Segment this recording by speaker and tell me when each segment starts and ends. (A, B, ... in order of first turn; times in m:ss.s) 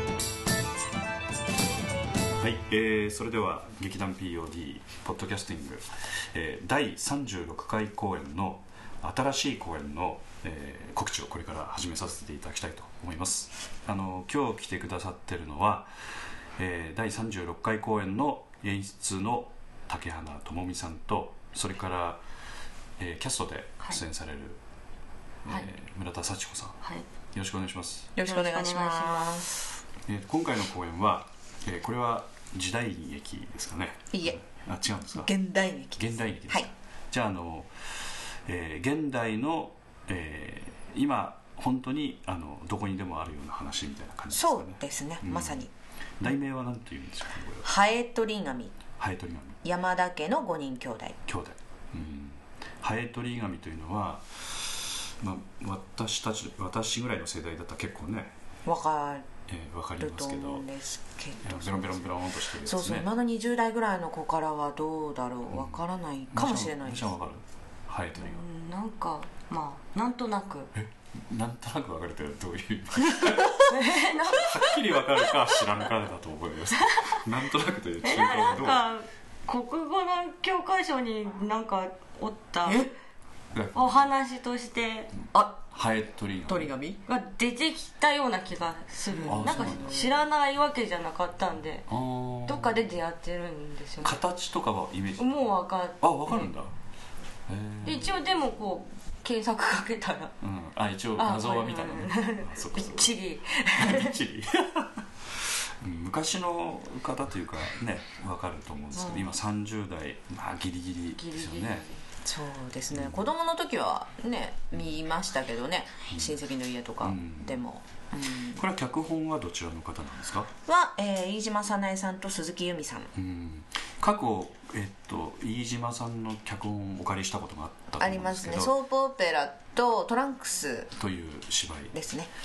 0:02.4-0:15.9 A
0:16.6-0:22.2 A
0:23.0-0:24.6 A
0:25.4-0:26.8 A
0:27.3-0:28.1 A
0:28.2-0:29.5 B
0:28.2-0:29.4 C
0:30.1-0:35.3 A
0:34.1-0:34.4 B
0:35.1-0:36.7 B
0:36.0-0:37.9 A
0:38.4-0:45.7 A
0:44.3-0:45.7 B
0:46.2-0:47.7 A
0:47.6-0:48.8 B
0:49.0-0:49.6 A
0:49.6-0:51.2 B
0:51.3-0:58.3 A
0:58.6-0:59.2 B
0:59.5-1:00.7 A
1:00.0-1:02.1 B
1:01.4-1:03.1 A
1:02.6-1:07.1 B
1:05.5-1:08.4 A
1:08.2-1:10.7 C
1:10.7-1:13.7 A
1:13.6-1:14.6 C
1:14.4-1:18.9 A
1:18.0-1:22.8 C
1:22.6-1:22.9 B
1:23.5-1:24.1 A
1:23.7-1:25.1 C
1:25.6-1:26.7 A
1:26.5-1:27.0 B
1:27.0-1:31.8 C
1:29.2-1:30.1 B
1:29.2-1:30.2 A
1:31.9-1:32.8 A
1:32.4-1:34.2 C
1:34.0-1:36.7 A
1:35.2-1:36.5 C
1:37.5-1:38.2 A
1:37.8-1:40.3 C
1:40.4-1:43.2 A
1:41.2-1:44.2 C
1:43.7-1:51.8 A
1:51.1-1:52.0 C
1:52.2-1:58.6 B
1:52.9-1:53.3 A
1:56.1-1:56.4 A
1:57.0-1:57.6 A
1:58.5-2:00.5 A
2:00.6-2:03.1 B
2:03.1-2:08.8 A
2:08.0-2:10.9 B
2:10.9-2:11.9 A
2:11.9-2:12.3 B